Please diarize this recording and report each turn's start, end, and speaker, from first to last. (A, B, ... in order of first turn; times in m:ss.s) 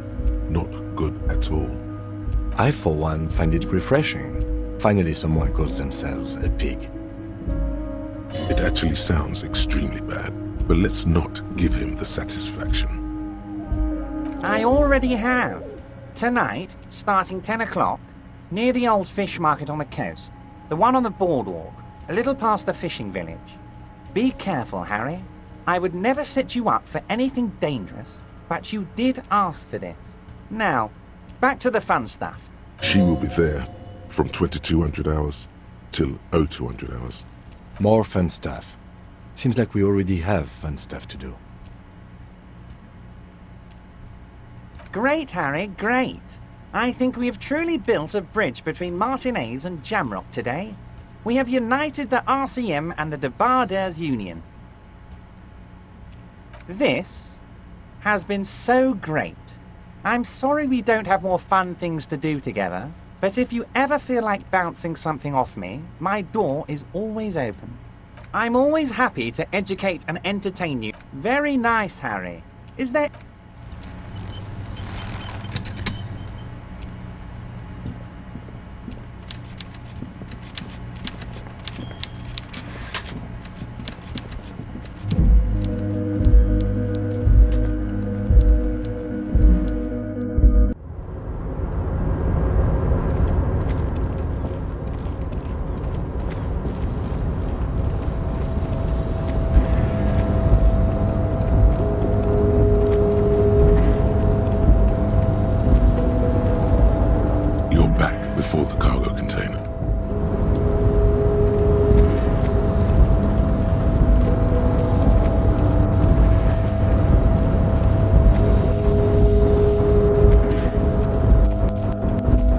0:00.5-0:01.8 A
0:02.5-0:06.9 B
0:08.5-0:13.0 A
0:14.4-0:23.6 C
0:24.1-0:32.5 C
0:32.8-0:37.2 A
0:37.8-0:38.8 B
0:39.4-0:41.4 B
0:44.9-0:54.4 C
0:56.7-0:57.4 C
0:58.0-1:07.8 C
1:08.3-1:13.1 C
1:47.7-1:49.6 A